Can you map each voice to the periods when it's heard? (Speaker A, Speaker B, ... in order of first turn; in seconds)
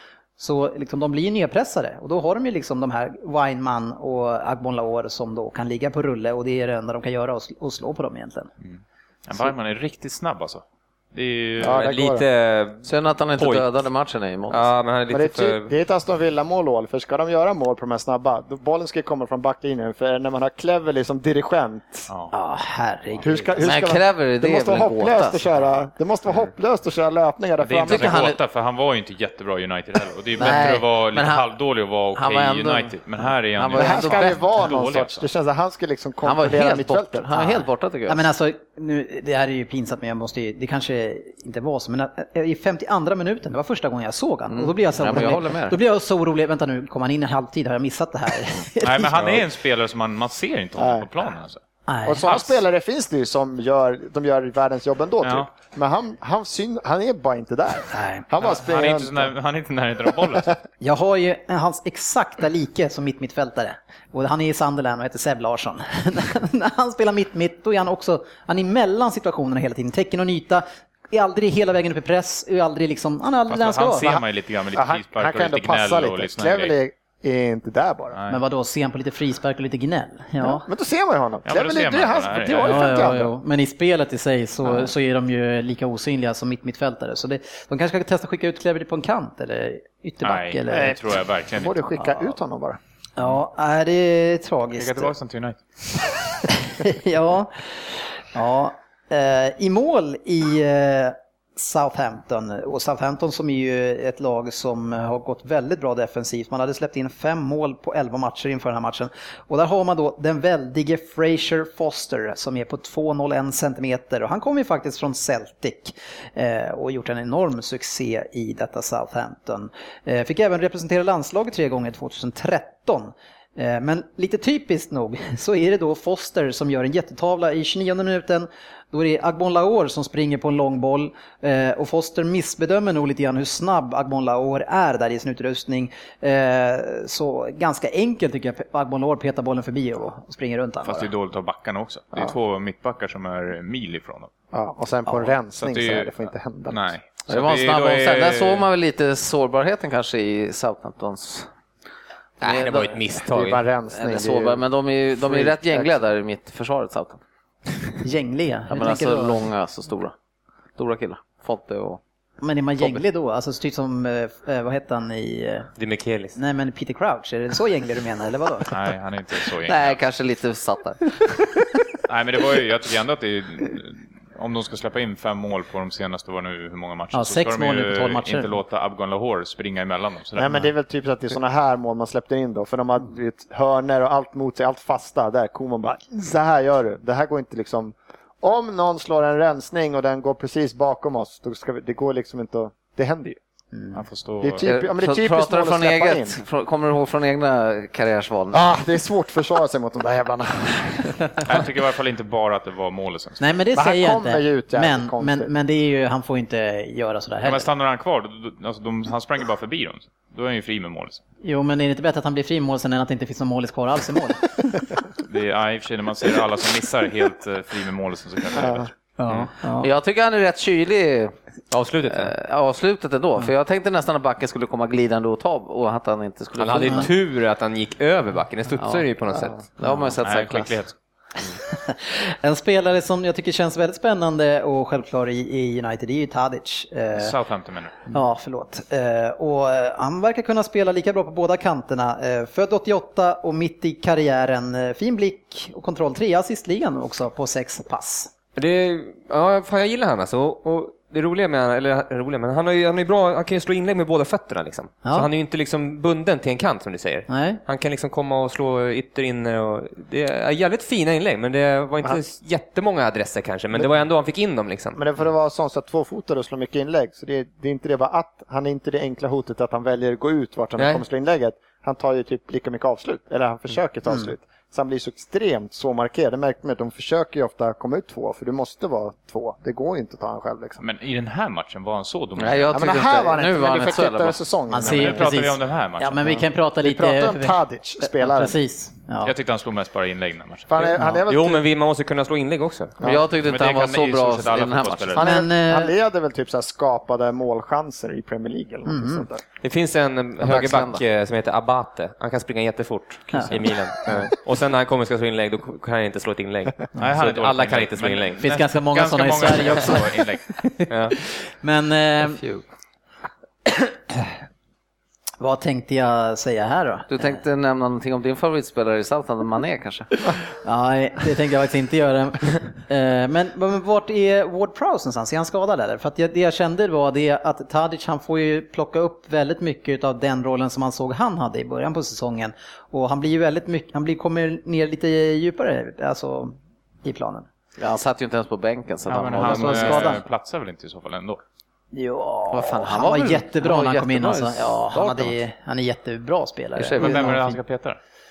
Speaker A: 0.4-8.5, 22.3-23.7, 37.3-49.4, 51.9-52.3, 57.9-58.2, 60.8-74.1, 78.3-80.7, 82.6-91.0, 92.0-92.2, 93.2-95.1, 96.6-141.1, 145.1-145.3, 158.0-159.5, 162.4-165.7, 166.3-168.7, 177.1-178.6, 203.4-207.7, 211.4-214.5, 219.2-219.9, 231.7-237.3, 238.1-248.3, 257.3-257.6, 284.7-289.3, 290.9-291.2, 295.2-295.9, 298.9-299.2, 308.4-312.4, 315.4-317.4, 320.6-337.5, 339.3-340.2, 341.9-347.6
Speaker B: 8.6-11.8, 27.6-35.2, 48.8-51.6, 55.2-55.5, 58.4-60.6, 73.5-76.8, 78.1-78.4, 81.4-83.2, 90.2-91.9, 94.8-96.1, 140.8-144.3, 145.6-146.1, 146.7-148.7, 168.7-170.0, 172.1-180.7, 193.9-194.7, 201.4-203.4, 207.4-211.2, 215.2-219.5, 230.2-230.9, 237.1-237.9, 280.8-282.8, 284.8-286.2, 289.2-290.9, 293.4-295.3, 303.3-303.6, 307.0-310.4, 339.1-341.4, 347.0-348.0
Speaker C: 11.6-12.2, 15.1-22.1, 23.2-28.3, 33.7-37.4, 50.8-51.1, 52.0-59.3, 74.7-78.2, 80.4-83.3, 90.7-92.8, 144.5-146.9, 153.3-154.6, 155.2-156.0, 180.3-193.4, 194.4-196.3, 198.5-201.1, 203.7-205.5, 218.5-218.9, 264.9-280.8, 282.7-285.3, 286.2-288.6, 290.7-291.6, 293.0-293.2, 295.1-299.4
Speaker D: 11.6-13.8, 14.5-15.7, 152.4-153.6, 165.8-166.3, 221.7-222.3, 226.6-229.6, 248.6-265.0, 291.3-293.0, 299.6-308.4, 310.9-311.1
Speaker E: 12.8-14.7, 23.6-25.4, 27.8-28.4, 30.4-31.4, 32.1-33.0, 33.5-34.3, 36.2-38.2, 44.5-45.8, 147.3-151.5, 152.4-153.1, 153.9-157.2, 158.7-160.1, 160.8-162.0, 169.7-171.2, 194.6-198.7, 219.8-221.3, 222.1-227.1, 228.8-229.0, 229.8-230.8, 282.4-284.4, 293.0-295.2, 300.4-301.0, 312.4-312.6, 317.1-320.1, 337.8-340.2, 342.5-345.4, 346.8-347.4